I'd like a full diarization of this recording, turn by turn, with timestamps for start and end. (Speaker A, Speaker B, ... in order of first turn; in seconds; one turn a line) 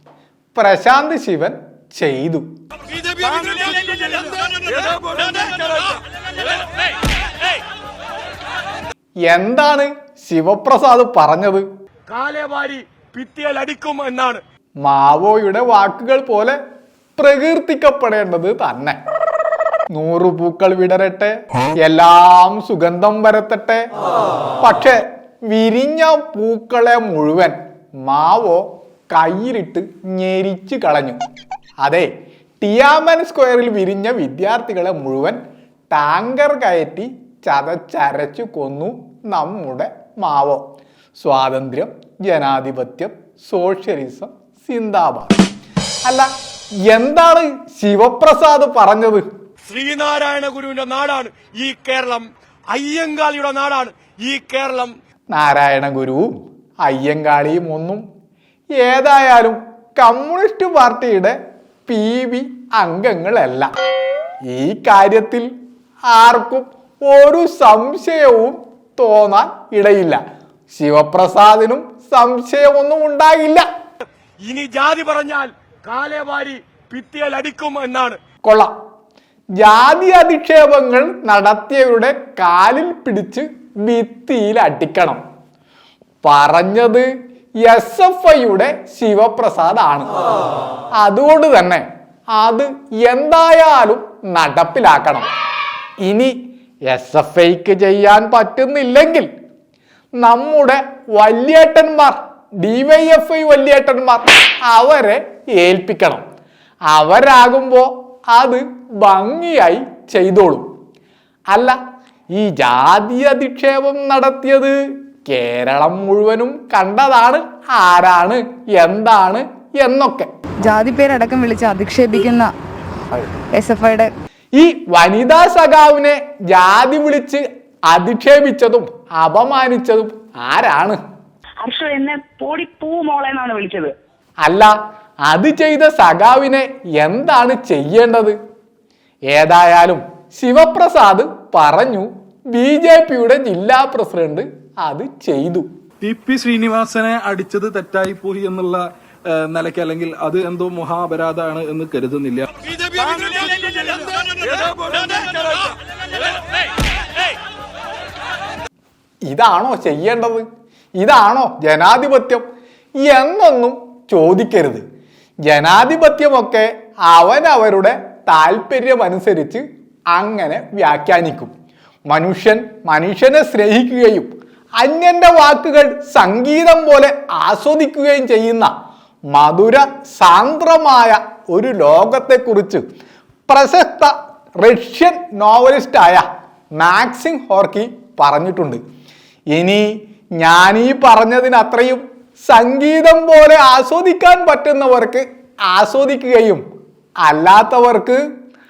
Speaker A: 0.5-2.5
Speaker B: 3.0-6.0
Speaker A: 9.3-11.7
Speaker B: 12.1-14.4
Speaker A: 14.8-16.6
Speaker A: 17.1-19.0
Speaker A: 19.9-23.9
Speaker A: 24.6-31.2
Speaker A: 31.8-40.6
Speaker A: 41.2-45.4
Speaker A: 46.8-49.2
Speaker B: 49.7-54.9
Speaker A: 55.3-58.0
Speaker A: 58.8-63.7
Speaker A: 64.4-65.5
Speaker A: 66.1-70.2
Speaker A: 70.7-73.7
Speaker B: 74.5-78.2
Speaker A: 78.4-78.7
Speaker A: 79.6-85.2
Speaker A: 86.2-87.1
Speaker A: 87.6-90.1
Speaker A: 91.0-95.3
Speaker A: 96.0-96.3
Speaker A: 96.9-99.3
Speaker A: 100.2-106.2
Speaker A: 106.9-110.7
Speaker A: 111.5-111.8
Speaker A: 112.3-120.3
Speaker C: 120.6-122.5
Speaker C: 123.1-124.1
Speaker A: 124.5-131.0
Speaker D: 131.6-133.9
Speaker A: 134.4-134.7
Speaker A: 135.3-138.3
Speaker A: 139.3-145.7
Speaker E: 146.0-155.7
Speaker A: 159.3-160.4
Speaker A: 161.0-162.4
Speaker A: 163.0-164.8
Speaker A: 165.5-171.5
Speaker A: 172.1-178.7
Speaker A: 179.3-182.8
Speaker A: 183.5-188.8
Speaker A: 189.5-196.6
Speaker A: 197.2-198.2